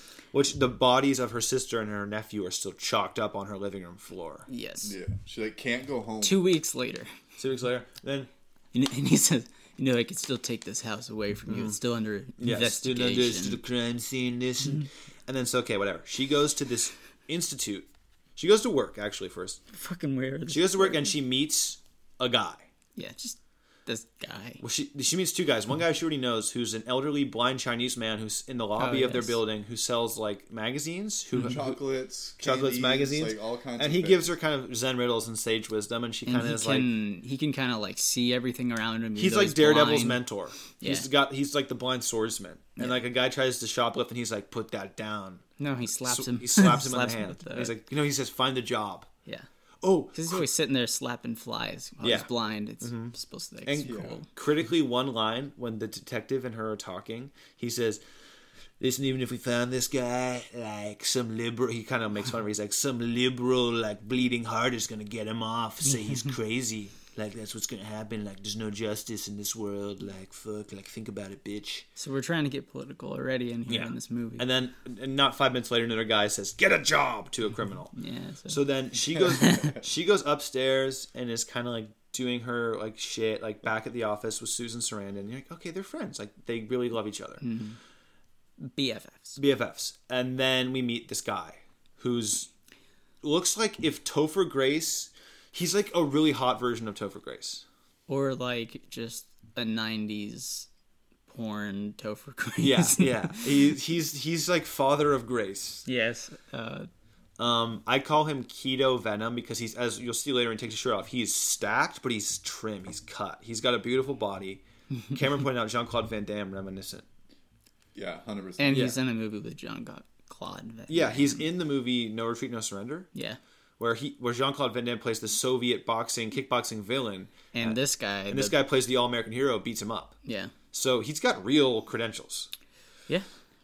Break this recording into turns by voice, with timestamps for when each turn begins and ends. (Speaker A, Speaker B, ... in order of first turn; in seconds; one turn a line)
Speaker A: 0.3-4.5
Speaker B: 4.5-4.9
Speaker C: 4.8-6.5
Speaker B: 6.2-7.1
Speaker A: 7.4-8.3
Speaker B: 8.7-13.6
Speaker A: 11.5-11.8
Speaker A: 12.4-19.6
Speaker B: 19.7-21.1
Speaker A: 20.5-22.7
Speaker B: 23.0-24.6
Speaker A: 24.6-31.8
Speaker B: 28.8-29.4
Speaker C: 31.4-34.3
Speaker A: 32.4-36.9
Speaker B: 36.3-40.2
Speaker A: 39.2-49.1
Speaker B: 40.8-41.1
Speaker B: 45.6-47.8
Speaker A: 49.8-50.4
Speaker B: 50.1-54.3
Speaker A: 52.0-52.3
Speaker A: 52.8-53.1
Speaker A: 53.7-58.0
Speaker C: 53.9-54.2
Speaker A: 58.8-71.9
Speaker B: 65.9-66.3
Speaker B: 72.0-74.5
Speaker A: 73.7-77.9
Speaker B: 77.9-78.6
Speaker A: 78.5-87.4
Speaker B: 79.4-79.7
Speaker B: 87.4-87.8
Speaker B: 88.6-89.4
Speaker A: 89.4-92.5
Speaker A: 93.2-97.7
Speaker B: 98.1-100.7
Speaker B: 101.3-103.5
Speaker A: 102.6-105.9
Speaker B: 105.8-106.9
Speaker A: 107.4-117.1
Speaker C: 118.0-118.8
Speaker B: 118.6-121.5
Speaker A: 118.7-119.0
Speaker A: 120.9-123.1
Speaker A: 123.8-130.2
Speaker B: 127.5-128.6
Speaker B: 130.2-130.5
Speaker A: 130.7-132.5